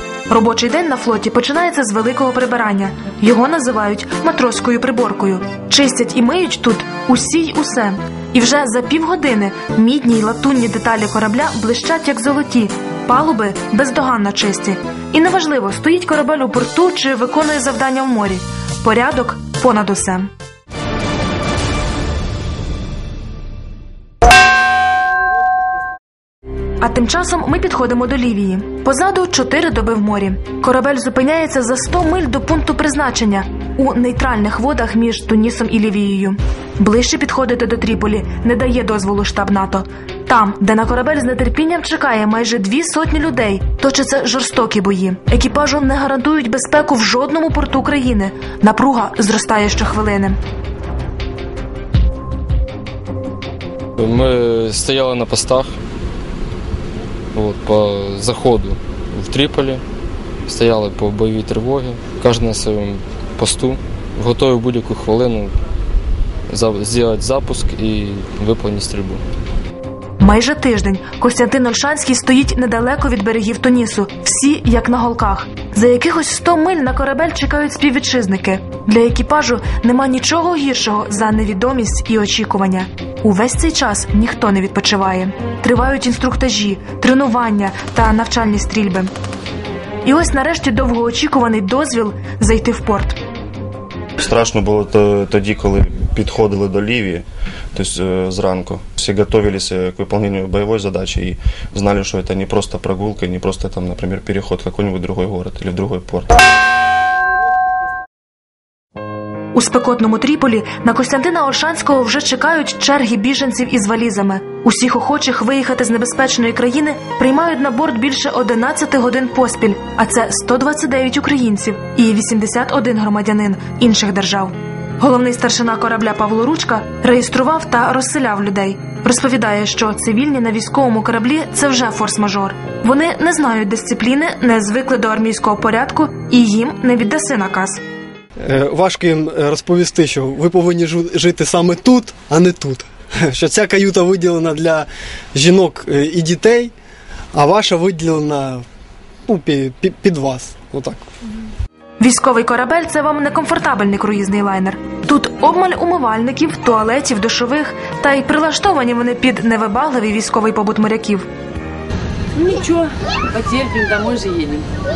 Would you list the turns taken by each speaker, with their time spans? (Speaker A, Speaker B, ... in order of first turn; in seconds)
Speaker A: 0.3-20.3, 26.8-50.4, 70.2-89.1, 90.0-93.2, 109.5-137.8, 152.0-161.3
Speaker B: 54.0-55.7, 57.3-59.8, 60.5-65.5, 66.5-69.2
Speaker C: 94.2-106.3
Speaker D: 138.4-146.7, 147.3-148.6, 149.3-151.1
Speaker E: 162.4-164.6